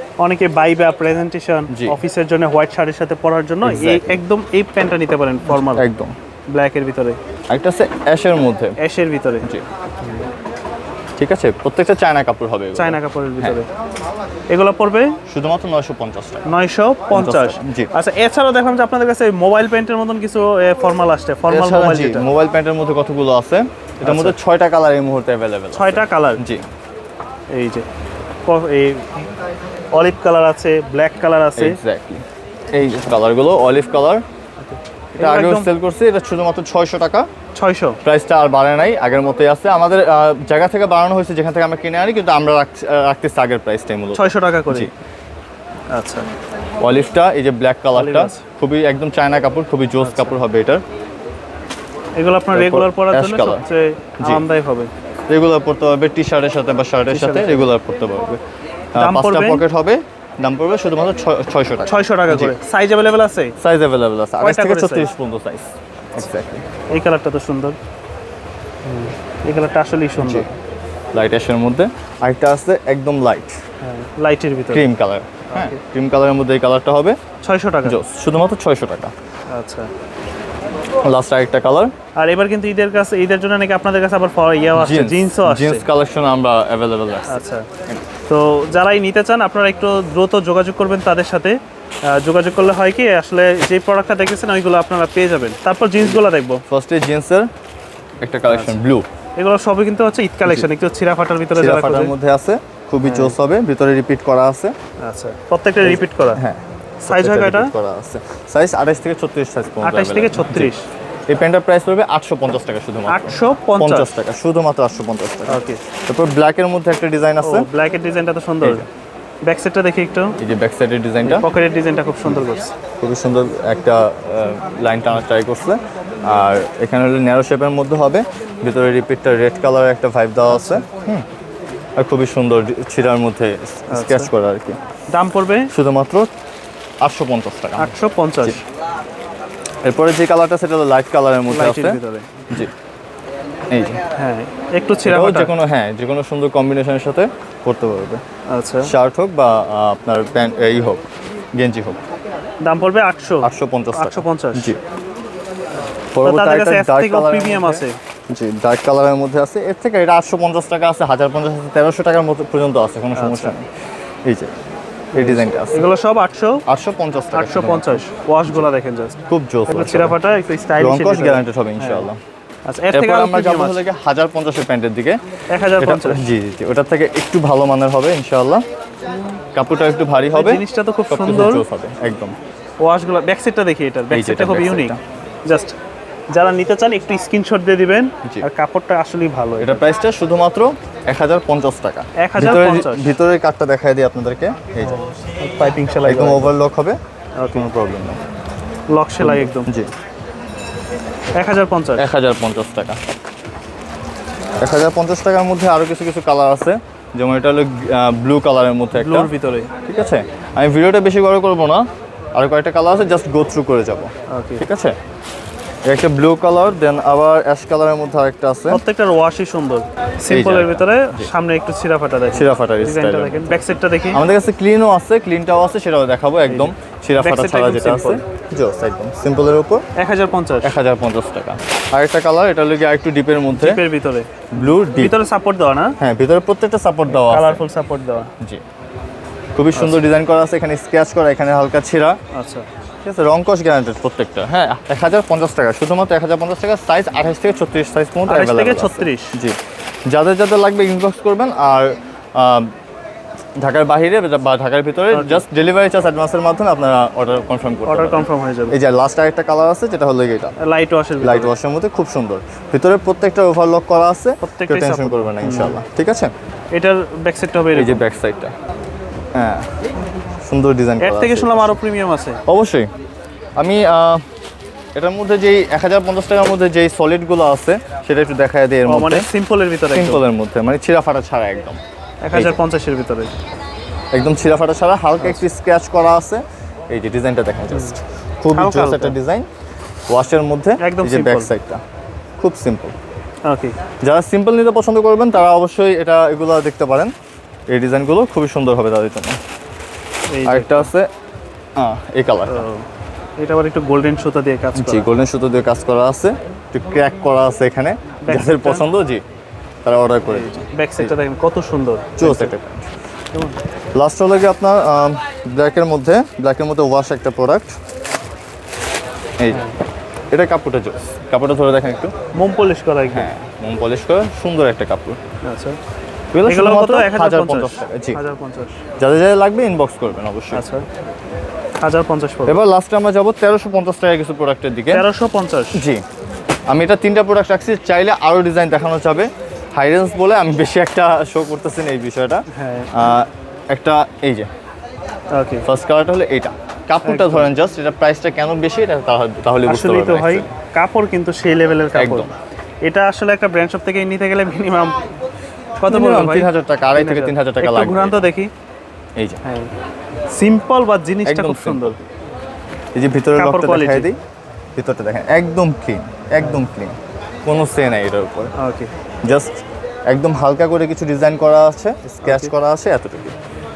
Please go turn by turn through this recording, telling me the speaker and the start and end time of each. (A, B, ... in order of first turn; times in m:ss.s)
0:00.2-0:05.9 A
0:01.7-0:02.0 B
0:03.6-0:04.2 B
0:05.5-0:06.1 B
0:06.5-0:07.2 A
0:07.5-0:08.8 B
0:08.8-0:09.5 A
0:11.2-0:13.6 B
0:12.8-0:13.7 A
0:14.5-0:15.2 A
0:15.3-0:16.4 B
0:16.5-0:22.3 A
0:17.1-0:17.9 B
0:21.5-0:26.6 B
0:24.0-0:24.4 A
0:25.7-0:26.4 A
0:27.5-0:27.9 A
0:28.5-0:29.2 A
0:29.9-0:31.8 A
0:31.6-0:34.2 B
0:34.6-0:35.7 A
0:35.2-0:37.3 B
0:37.6-0:38.0 A
0:38.0-0:44.9 B
0:44.1-0:44.9 A
0:45.9-0:46.3 A
0:46.8-0:50.8 B
0:47.9-0:48.4 A
0:50.0-0:50.4 A
0:52.2-0:54.9 A
0:52.5-0:53.6 B
0:55.3-0:58.4 B
0:57.1-0:57.7 A
0:59.0-1:02.6 B
0:59.0-0:59.6 A
1:01.9-1:03.5 A
1:03.6-1:06.7 B
1:04.4-1:05.1 A
1:06.9-1:07.8 A
1:08.8-1:10.5 A
1:10.2-1:10.5 B
1:11.1-1:13.6 B
1:13.8-1:14.8 A
1:14.7-1:17.2 B
1:15.5-1:15.8 A
1:17.4-1:18.0 A
1:17.8-1:19.1 B
1:19.5-1:19.9 A
1:21.0-1:21.9 B
1:22.2-1:25.9 A
1:24.8-1:28.0 B
1:27.3-1:27.7 A
1:28.3-1:31.6 A
1:32.1-1:36.6 A
1:36.0-1:37.5 B
1:38.2-1:39.0 B
1:38.5-1:38.8 A
1:39.4-1:42.1 A
1:41.6-1:44.7 B
1:43.0-1:43.4 A
1:45.0-1:46.4 A
1:45.8-1:50.7 B
1:47.0-1:47.7 A
1:49.8-1:50.9 A
1:51.3-1:57.7 B
1:53.1-1:54.1 A
1:55.5-1:55.8 A
1:57.4-1:58.8 A
1:59.4-2:00.4 A
2:00.4-2:01.5 B
2:01.2-2:02.7 A
2:03.0-2:11.3 B
2:10.5-2:10.8 A
2:12.0-2:14.8 B
2:13.9-2:14.3 A
2:15.1-2:15.7 A
2:15.7-2:16.3 B
2:17.0-2:18.6 B
2:17.8-2:18.6 A
2:19.8-2:22.7 B
2:21.5-2:22.6 A
2:23.7-2:24.0 B
2:24.2-2:25.6 A
2:25.1-2:28.2 B
2:28.5-2:28.9 A
2:28.8-2:31.0 B
2:31.6-2:32.0 B
2:32.6-2:34.7 A
2:33.4-2:34.8 B
2:36.1-2:43.7 B
2:36.2-2:38.0 A
2:43.2-2:43.5 A
2:44.2-2:44.5 B
2:45.1-2:46.6 A
2:45.2-2:45.9 B
2:46.7-2:48.6 B
2:47.3-2:52.1 A
2:49.3-2:50.2 B
2:50.8-2:52.2 B
2:52.7-2:53.8 A
2:52.9-2:55.2 B
2:55.5-2:56.3 A
2:55.8-2:58.6 B
2:59.6-3:02.4 B
3:00.3-3:01.6 A
3:02.8-3:04.9 A
3:04.1-3:05.0 B
3:05.5-3:05.7 A
3:06.3-3:09.9 A
3:09.6-3:15.0 B
3:12.2-3:13.1 A
3:14.8-3:16.6 A
3:16.1-3:17.0 B
3:17.4-3:17.7 A
3:17.5-3:18.2 B
3:18.9-3:19.7 A
3:19.2-3:19.9 B
3:21.4-3:22.1 A
3:22.0-3:23.0 B
3:24.6-3:29.3 B
3:28.9-3:29.7 A
3:29.9-3:31.8 B
3:32.4-3:35.0 B
3:34.3-3:34.7 A
3:35.9-3:38.8 B
3:38.7-3:44.2 A
3:40.3-3:41.3 B
3:42.3-3:49.8 B
3:46.5-3:48.2 A
3:50.0-3:50.8 A
3:50.6-3:53.8 B
3:53.5-3:56.0 A
3:54.5-3:55.2 B
3:56.0-3:57.6 B
3:57.1-3:58.3 A
3:59.6-4:02.2 B
3:59.8-4:00.1 A
4:02.3-4:02.6 A
4:03.0-4:09.6 B
4:08.3-4:09.4 A
4:10.1-4:12.7 B
4:13.6-4:20.6 B
4:15.1-4:15.4 A
4:17.9-4:18.8 A
4:20.6-4:21.5 A
4:21.2-4:26.3 B
4:24.4-4:25.8 A
4:26.7-4:28.0 A
4:27.8-4:28.5 B
4:29.3-4:29.7 B
4:30.4-4:31.8 B
4:31.0-4:32.4 A
4:32.5-4:32.9 B
4:33.6-4:34.2 B
4:35.0-4:39.3 B
4:38.9-4:40.2 A
4:39.9-4:41.8 B
4:42.2-4:43.3 A
4:42.3-4:42.6 B
4:44.1-4:49.5 B
4:45.2-4:45.4 A
4:48.6-4:49.2 A
4:50.1-4:51.8 B
4:50.8-4:51.5 A
4:52.4-4:53.0 B
4:53.5-4:53.8 A
4:54.0-4:57.1 B
4:57.7-4:59.4 B
5:00.3-5:00.9 A
5:00.5-5:01.1 B
5:01.8-5:02.6 B
5:02.5-5:02.8 A
5:03.4-5:05.1 A
5:04.8-5:09.2 B
5:08.2-5:08.8 A
5:09.8-5:11.2 B
5:10.3-5:12.5 A
5:12.2-5:12.9 B
5:14.0-5:17.8 B
5:19.4-5:19.6 B
5:20.3-5:22.1 B
5:22.3-5:23.3 A
5:23.1-5:25.2 B
5:25.4-5:25.8 A
5:26.3-5:28.2 B
5:26.5-5:28.8 A
5:29.0-5:30.6 B
5:30.5-5:30.8 A
5:31.8-5:32.6 A
5:32.5-5:35.0 B
5:34.9-5:35.8 A
5:35.8-5:36.0 B
5:36.7-5:44.5 B
5:42.5-5:42.9 A
5:45.3-5:45.6 A
5:45.6-5:50.5 B
5:47.0-5:47.5 A
5:49.7-5:52.3 A
5:52.0-5:52.3 B
5:52.8-5:55.1 A
5:55.8-5:58.5 A
5:55.9-5:58.3 B
5:59.4-5:59.7 A
6:00.3-6:02.0 A
6:01.3-6:02.0 B
6:03.0-6:04.2 B
6:03.4-6:04.1 A
6:04.8-6:08.5 B
6:06.4-6:06.7 A
6:08.6-6:08.9 A
6:09.2-6:09.6 B
6:10.1-6:13.4 B
6:12.2-6:12.5 A